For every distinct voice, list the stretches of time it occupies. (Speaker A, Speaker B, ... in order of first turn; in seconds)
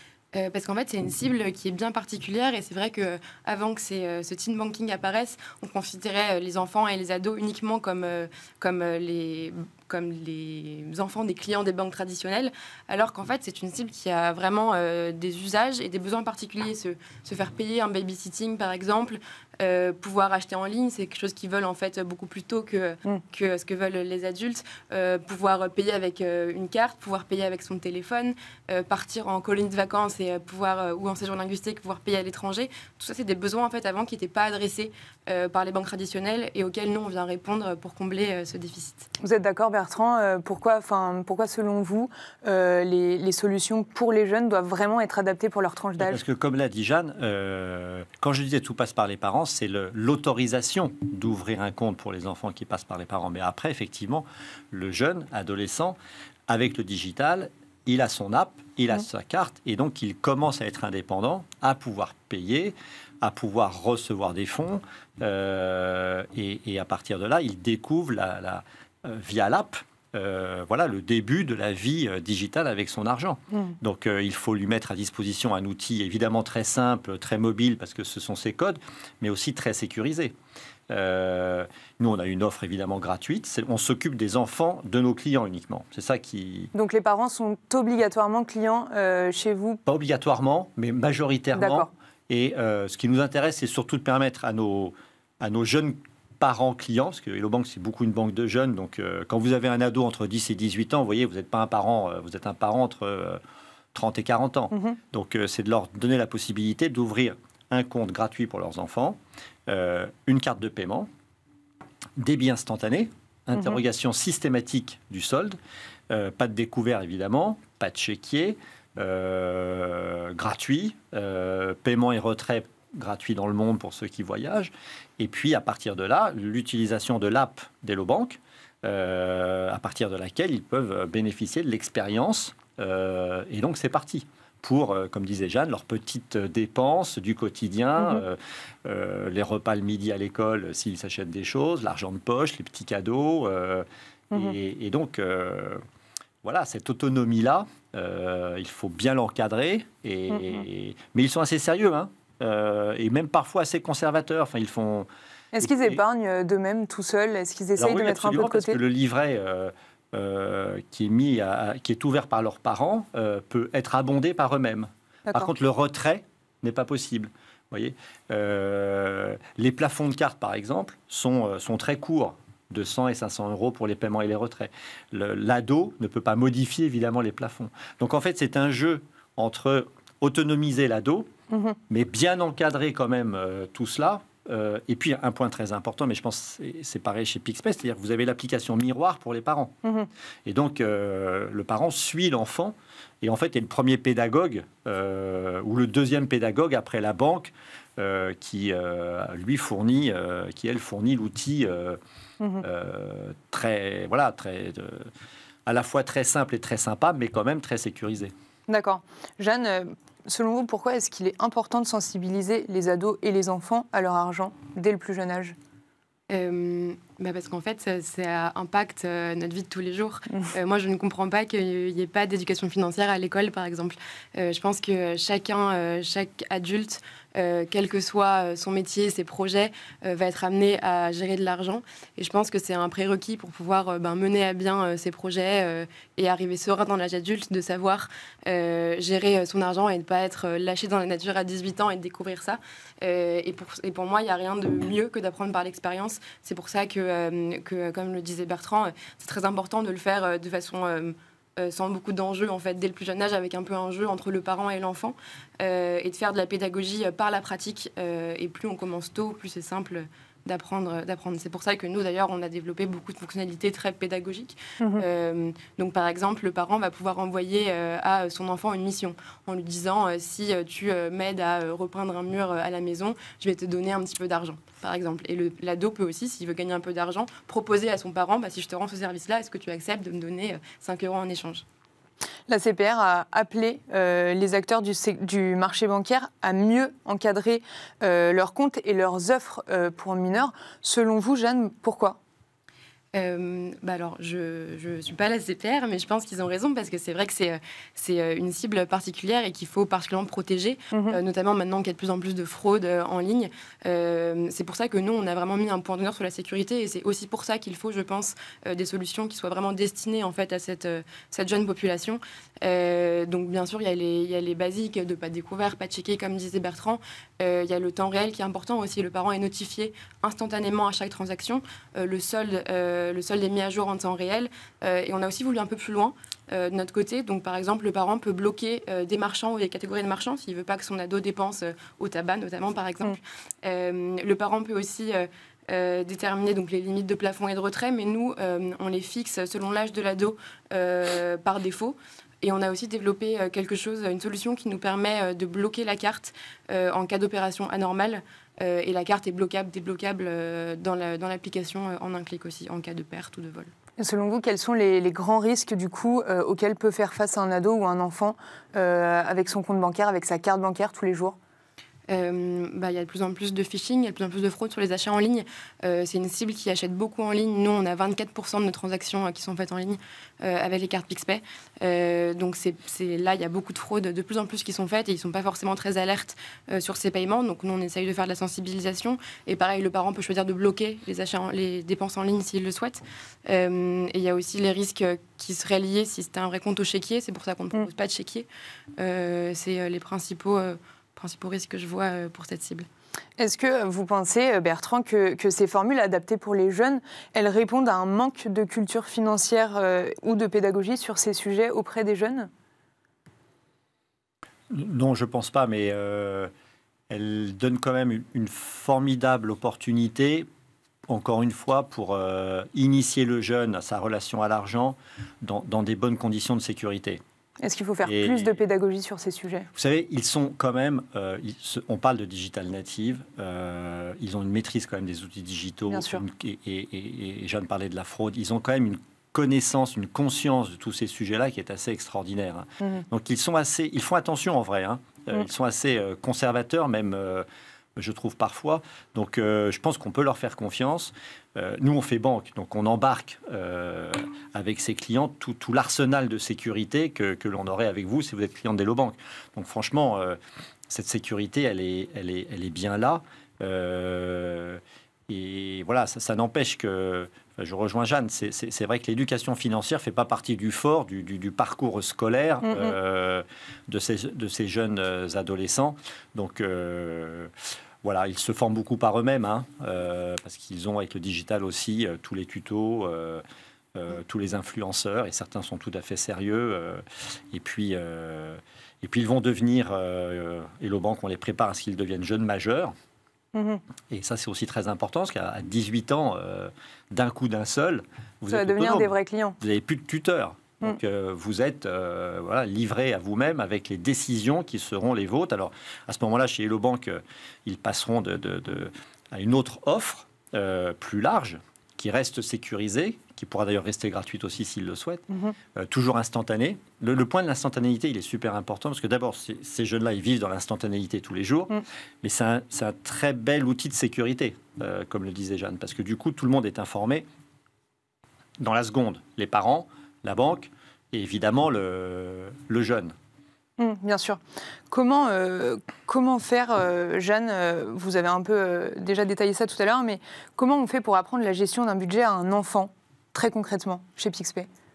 Speaker A: 0.3-39.1, 216.3-281.6, 293.1-353.7, 362.1-388.5, 389.0-392.9
Speaker B: 39.2-46.2, 86.7-89.8, 91.5-91.9, 155.5-158.8, 181.5-181.8, 202.4-202.7, 208.7-215.6, 282.5-292.2, 300.9-301.2, 354.0-361.4, 393.4-402.5, 417.6-419.7, 425.9-426.2, 462.6-462.9, 483.5-483.8, 488.5-489.6, 523.8-534.7
Speaker C: 46.0-80.3, 80.9-86.7, 89.9-103.4, 103.9-111.1, 112.2-115.6, 116.1-145.8, 146.4-155.1, 155.6-156.0, 157.8-181.3, 181.9-189.7, 190.5-202.0, 202.6-205.1, 205.7-208.3, 404.7-406.5, 407.1-410.5, 411.1-417.2, 418.0-418.6, 419.8-450.4, 450.9-467.5, 468.0-473.4, 473.9-482.9, 484.1-505.2, 505.8-517.3, 518.6-523.1